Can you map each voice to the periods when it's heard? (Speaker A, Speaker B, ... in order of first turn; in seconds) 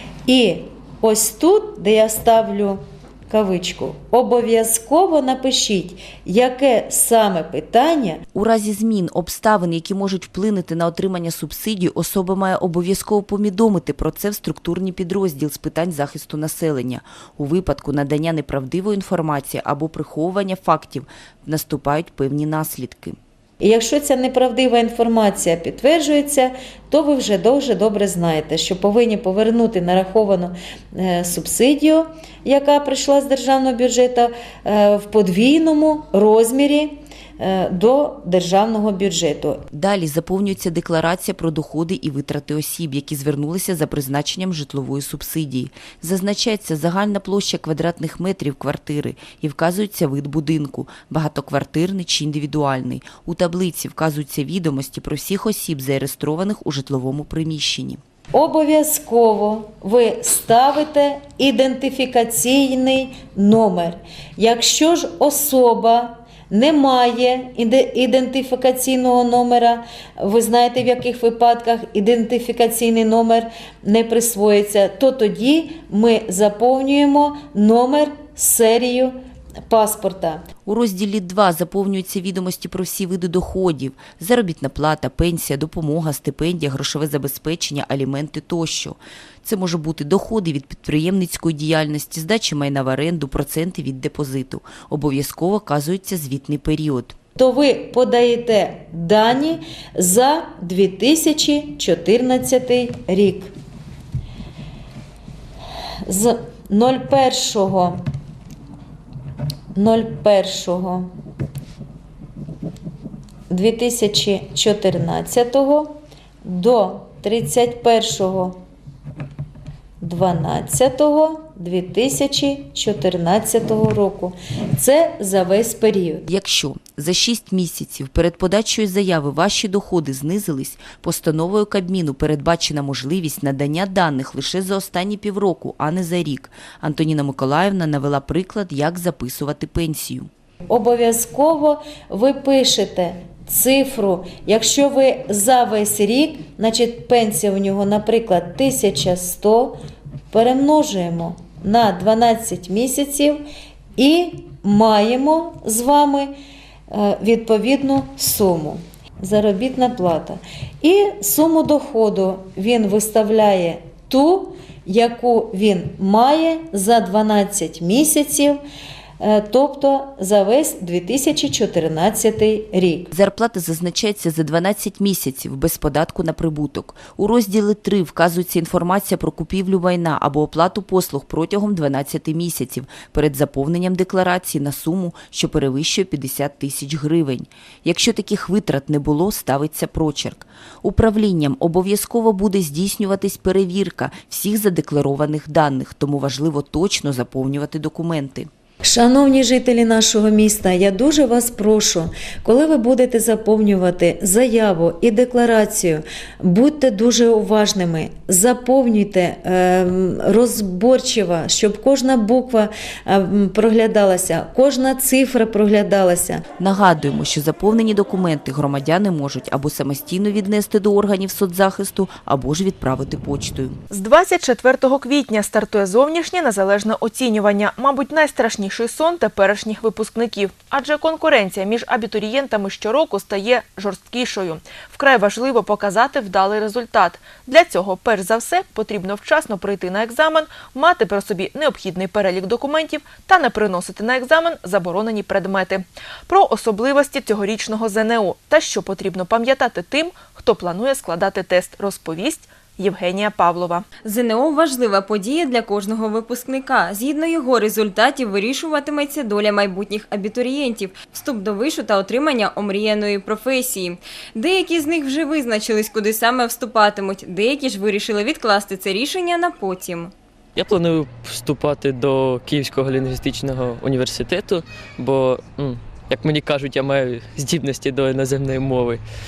Speaker A: 0.3-8.2, 23.6-39.6, 58.3-79.1, 79.7-80.4, 97.3-103.5, 106.1-108.0, 109.7-111.1, 113.5-118.6, 120.0-126.2, 140.7-149.8, 150.3-153.4, 154.0-156.3, 156.9-168.6, 169.2-173.1, 198.8-216.4
Speaker B: 8.3-23.2, 39.7-58.0, 80.7-97.1, 126.2-140.3, 173.1-198.5, 216.6-223.8
Speaker C: 223.9-253.9
Speaker D: 254.0-270.1
Speaker E: 270.6-279.0